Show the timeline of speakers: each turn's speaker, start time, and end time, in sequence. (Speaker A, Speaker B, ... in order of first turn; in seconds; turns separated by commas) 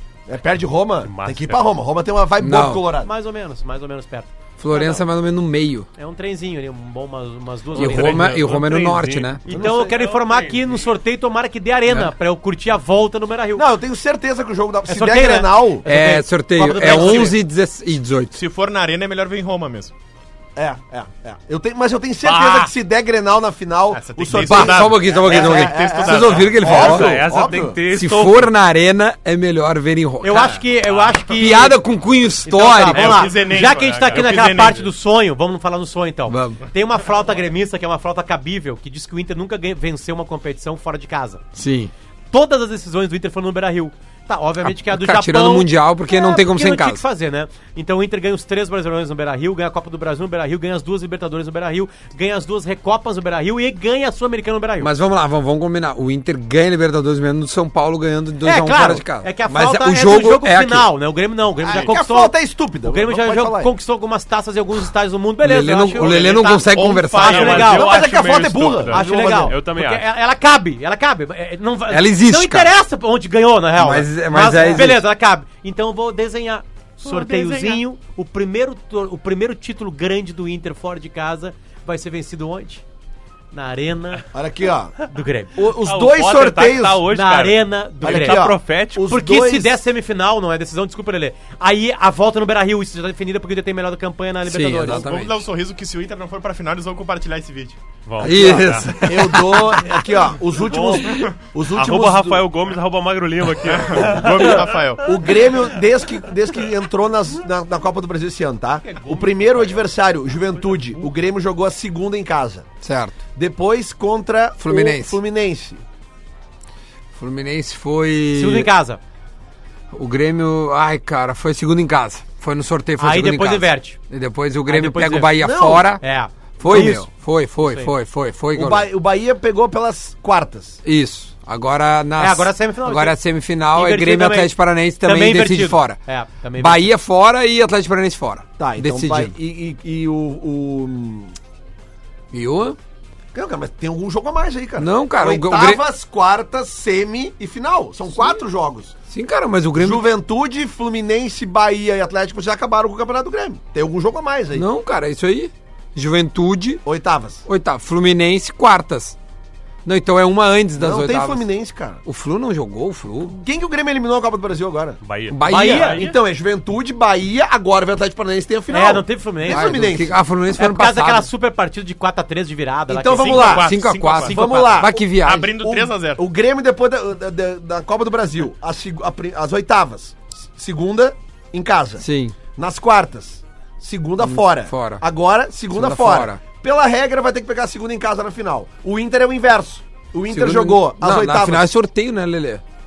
Speaker A: 0.3-3.1, Speaker B: 1.1-1.7, Speaker C: 2.4-2.9, Speaker D: 3.0-5.0, Speaker C: 4.6-5.9, Speaker D: 6.0-8.3, Speaker B: 7.7-10.8, Speaker C: 7.8-9.4, Speaker D: 9.5-13.7, Speaker A: 9.5-9.9, Speaker C: 11.9-12.1, Speaker A: 13.6-15.8, Speaker D: 14.9-17.4, Speaker C: 15.8-18.4, Speaker E: 16.9-17.3, Speaker E: 18.3-19.9, Speaker A: 20.6-27.8, Speaker B: 22.2-22.7, Speaker E: 23.9-26.8, Speaker C: 24.4-27.2, Speaker B: 26.6-28.5, Speaker C: 27.9-30.6, Speaker D: 30.2-31.8, Speaker C: 31.3-33.3, Speaker D: 32.4-41.4, Speaker E: 32.9-34.9, Speaker B: 33.5-34.4, Speaker C: 36.3-36.6, Speaker C: 41.5-41.9, Speaker D: 42.3-54.9, Speaker C: 44.6-47.0, Speaker C: 54.8-60.9, Speaker D: 58.4-68.0, Speaker A: 61.7-63.7, Speaker C: 65.4-67.5, Speaker E: 66.0-67.9, Speaker B: 67.2-70.0, Speaker A: 67.7-69.5, Speaker D: 68.9-82.8, Speaker C: 71.9-72.7, Speaker C: 73.8-75.0, Speaker E: 77.0-77.8, Speaker D: 83.5-84.3, Speaker A: 84.3-85.0, Speaker D: 85.1-85.6, Speaker A: 85.5-87.1, Speaker B: 85.8-89.0, Speaker D: 87.1-88.4, Speaker A: 88.0-89.8, Speaker D: 89.1-95.1, Speaker C: 94.5-95.4, Speaker E: 94.9-97.8, Speaker B: 98.1-99.0, Speaker C: 98.2-99.8, Speaker A: 98.2-102.5, Speaker B: 100.5-105.8, Speaker E: 101.1-101.4, Speaker E: 103.7-105.2, Speaker A: 104.4-112.7, Speaker B: 108.9-109.9, Speaker B: 110.5-111.1, Speaker C: 112.8-113.2, Speaker A: 113.3-115.8, Speaker C: 114.6-115.2, Speaker C: 117.1-118.7, Speaker D: 118.3-119.0, Speaker C: 119.9-126.0, Speaker D: 123.0-124.0, Speaker D: 124.7-125.4, Speaker A: 125.4-125.9, Speaker D: 126.0-127.1, Speaker C: 126.6-128.9, Speaker A: 126.7-127.0, Speaker D: 127.6-127.9, Speaker A: 128.6-130.8, Speaker C: 130.8-136.0, Speaker D: 132.2-133.2, Speaker D: 133.7-136.9, Speaker C: 136.6-139.3, Speaker A: 138.6-141.3, Speaker C: 142.3-142.8, Speaker A: 143.3-149.0, Speaker C: 144.8-145.8, Speaker C: 148.2-148.4, Speaker C: 149.1-150.1, Speaker A: 149.8-154.7, Speaker C: 154.5-156.8, Speaker A: 156.9-157.4, Speaker C: 157.4-159.2, Speaker C: 159.8-161.5, Speaker A: 160.8-162.0, Speaker C: 162.1-163.3, Speaker A: 163.2-170.2, Speaker B: 165.0-166.1, Speaker C: 165.3-166.0, Speaker D: 165.4-166.1, Speaker D: 168.7-169.8, Speaker C: 169.5-171.3, Speaker D: 170.5-174.9, Speaker A: 172.9-175.1, Speaker E: 173.1-176.2, Speaker C: 173.5-175.6, Speaker A: 175.7-191.7, Speaker C: 182.0-182.4, Speaker C: 184.2-185.0, Speaker C: 185.7-186.4, Speaker C: 190.3-192.6